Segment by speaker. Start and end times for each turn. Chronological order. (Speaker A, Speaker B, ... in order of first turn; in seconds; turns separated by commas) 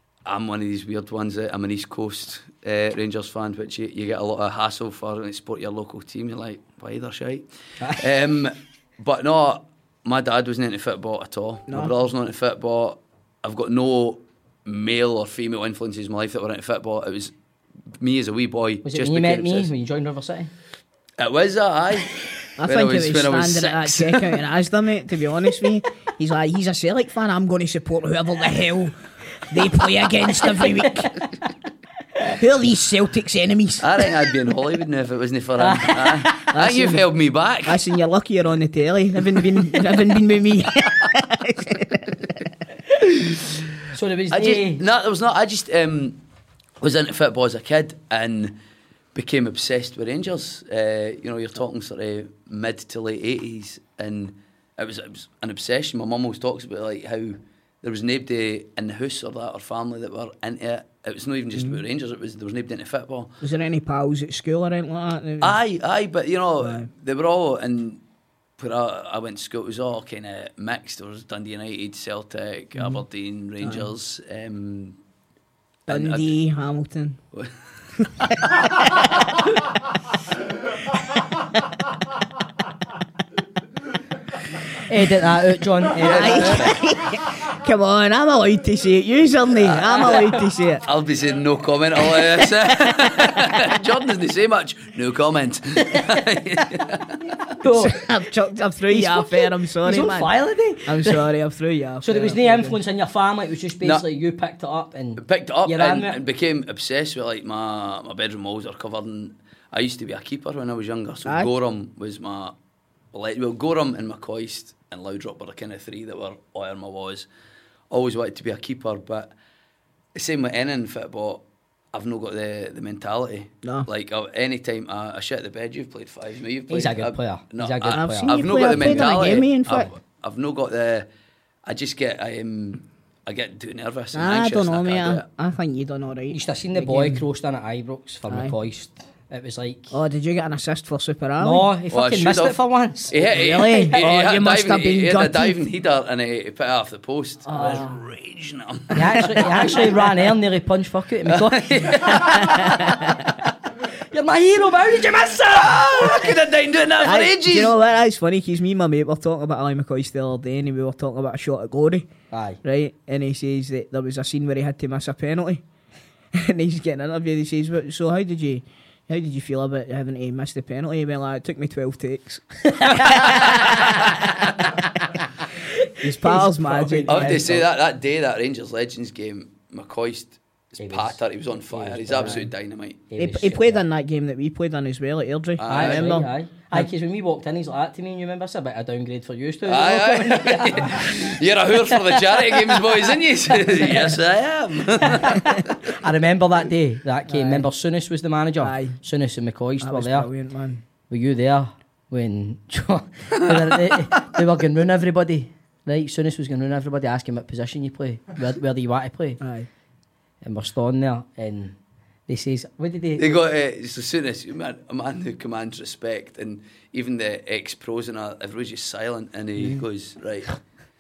Speaker A: 0.2-17.3, Speaker B: 11.7-11.9, Speaker A: 18.0-19.7, Speaker C: 18.8-20.5, Speaker A: 21.2-24.4, Speaker B: 22.6-31.2, Speaker B: 32.3-34.1, Speaker A: 33.8-37.8, Speaker C: 35.6-36.5, Speaker B: 36.5-37.0, Speaker B: 37.6-42.3, Speaker C: 43.9-44.8, Speaker A: 44.3-46.2, Speaker A: 46.8-48.6, Speaker A: 49.1-63.3, Speaker B: 63.4-65.6, Speaker A: 65.4-68.0, Speaker B: 66.6-66.9, Speaker A: 68.6-75.0, Speaker B: 72.8-73.0, Speaker B: 73.6-73.9, Speaker A: 75.9-76.3, Speaker B: 75.9-77.2, Speaker B: 78.0-79.2, Speaker C: 84.8-86.7, Speaker A: 86.0-86.8, Speaker B: 86.0-90.8, Speaker A: 89.6-97.2, Speaker C: 95.9-96.8, Speaker C: 97.6-98.0, Speaker B: 97.8-100.3, Speaker C: 98.9-101.2, Speaker B: 100.8-102.8, Speaker C: 102.0-106.2, Speaker A: 105.2-112.5, Speaker B: 111.2-111.5, Speaker A: 113.1-117.3, Speaker A: 117.9-119.3, Speaker A: 120.1-131.1, Speaker C: 126.7-129.4, Speaker B: 127.9-129.9, Speaker A: 131.6-135.2, Speaker B: 134.1-137.2, Speaker C: 136.3-140.0, Speaker B: 138.3-138.5, Speaker B: 139.9-141.7, Speaker C: 141.4-144.0, Speaker A: 141.9-150.1, Speaker B: 143.2-145.6, Speaker B: 147.5-148.0, Speaker C: 148.9-151.9, Speaker A: 151.2-152.9, Speaker B: 152.2-152.7, Speaker C: 154.1-156.3, Speaker A: 155.9-157.8, Speaker B: 157.0-162.1, Speaker C: 162.3-162.6, Speaker B: 162.6-165.6, Speaker B: 166.3-174.7, Speaker C: 172.7-173.2, Speaker A: 173.3-174.2, Speaker C: 176.0-177.7, Speaker B: 176.0-177.6, Speaker A: 177.1-183.1, Speaker C: 180.8-182.5, Speaker C: 183.1-183.8, Speaker B: 183.2-186.9, Speaker A: 185.6-186.2, Speaker C: 185.7-191.3, Speaker A: 189.6-195.7, Speaker C: 191.9-192.8, Speaker C: 195.0-200.3, Speaker B: 197.3-197.7, Speaker B: 198.6-199.0, Speaker B: 199.8-200.8, Speaker C: 201.1-209.4, Speaker B: 209.4-209.7, Speaker C: 210.4-211.8, Speaker C: 212.3-213.4, Speaker A: 213.2-220.6